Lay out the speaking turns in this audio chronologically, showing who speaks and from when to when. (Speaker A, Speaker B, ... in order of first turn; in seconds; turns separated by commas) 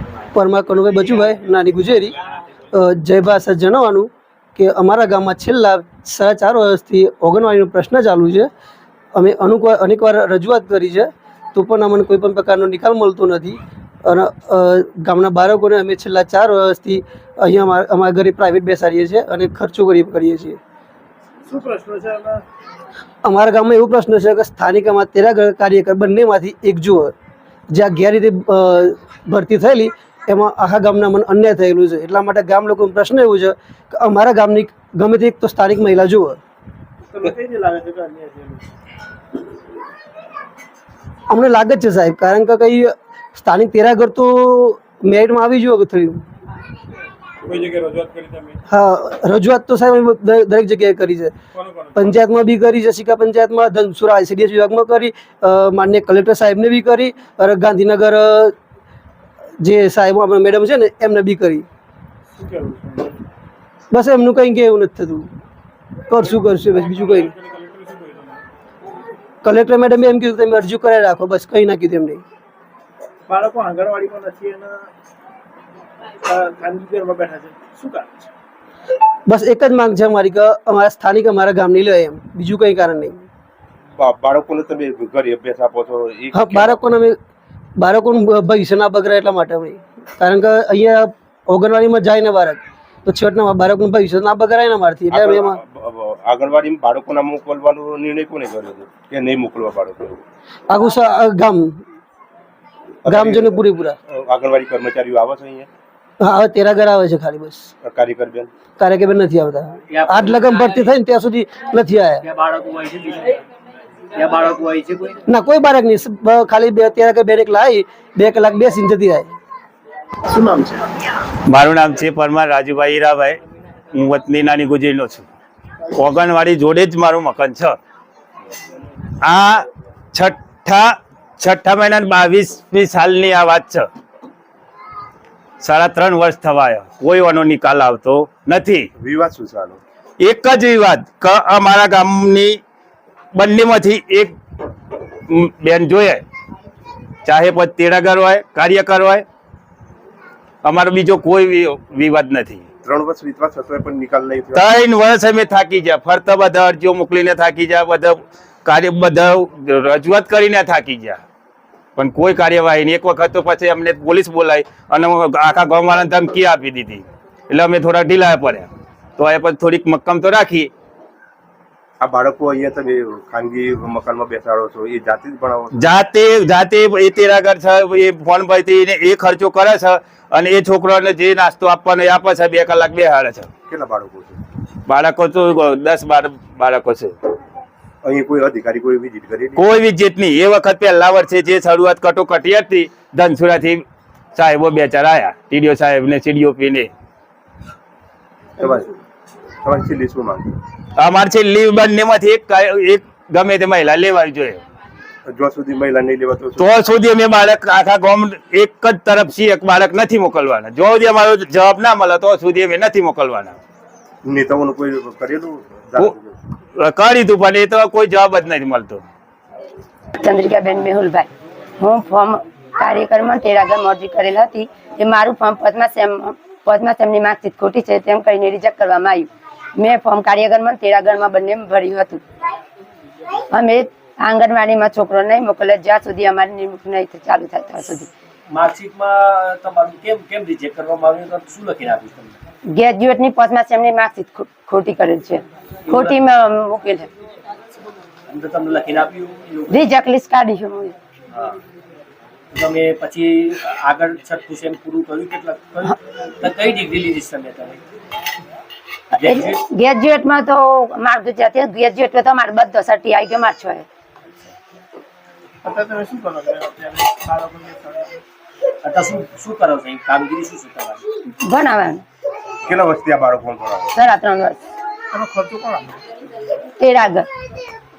Speaker A: 0.3-2.1, Speaker A: 2.7-8.5, Speaker A: 9.1-20.6, Speaker B: 21.5-22.4, Speaker A: 23.2-27.1, Speaker A: 27.7-36.4, Speaker B: 37.1-38.6, Speaker A: 41.3-46.2, Speaker B: 47.5-48.0, Speaker A: 48.7-51.4, Speaker A: 51.9-58.5, Speaker A: 59.6-61.6, Speaker B: 62.4-63.2, Speaker A: 63.9-65.3, Speaker A: 66.1-67.3, Speaker B: 66.9-68.2, Speaker A: 69.4-72.2, Speaker B: 73.3-74.8, Speaker B: 76.2-78.2, Speaker A: 79.3-83.2, Speaker C: 84.0-86.8, Speaker A: 86.3-87.2, Speaker A: 87.8-95.6, Speaker C: 95.1-100.2, Speaker A: 100.7-101.8, Speaker C: 103.0-105.7, Speaker A: 103.0-104.0, Speaker A: 106.2-107.7, Speaker C: 107.8-108.5, Speaker A: 108.8-112.2, Speaker D: 109.9-110.9, Speaker D: 112.2-113.4, Speaker D: 114.1-115.2, Speaker A: 115.3-119.3, Speaker B: 120.3-120.8, Speaker E: 121.5-123.4, Speaker E: 123.9-125.3, Speaker E: 125.9-127.8, Speaker E: 129.2-133.9, Speaker E: 135.6-138.9, Speaker C: 139.0-139.8, Speaker E: 140.2-142.6, Speaker E: 143.3-144.3, Speaker E: 145.3-146.2, Speaker E: 147.2-149.2, Speaker E: 150.6-152.6, Speaker C: 152.8-154.7, Speaker E: 154.5-161.2, Speaker E: 161.9-170.7, Speaker C: 172.0-175.8, Speaker E: 175.7-183.5, Speaker C: 183.7-184.4, Speaker E: 184.8-187.1, Speaker C: 188.0-189.7, Speaker E: 189.6-193.8, Speaker E: 194.3-196.9, Speaker C: 198.6-198.9, Speaker C: 199.6-200.6, Speaker E: 200.9-204.6, Speaker C: 205.3-206.8, Speaker E: 206.6-213.6, Speaker C: 214.2-216.3, Speaker E: 216.7-219.0, Speaker F: 220.2-221.3, Speaker F: 221.8-232.2, Speaker F: 233.5-238.1, Speaker D: 238.5-242.4, Speaker F: 242.7-247.1, Speaker D: 245.9-246.2, Speaker D: 248.3-249.8, Speaker F: 249.7-250.9, Speaker D: 251.3-251.6, Speaker D: 252.5-257.8, Speaker D: 259.1-259.6, Speaker F: 259.2-263.9, Speaker B: 265.6-268.0, Speaker D: 268.8-271.0, Speaker F: 271.3-272.0, Speaker C: 272.6-273.9, Speaker F: 273.9-274.6, Speaker B: 275.1-276.0, Speaker F: 276.8-277.3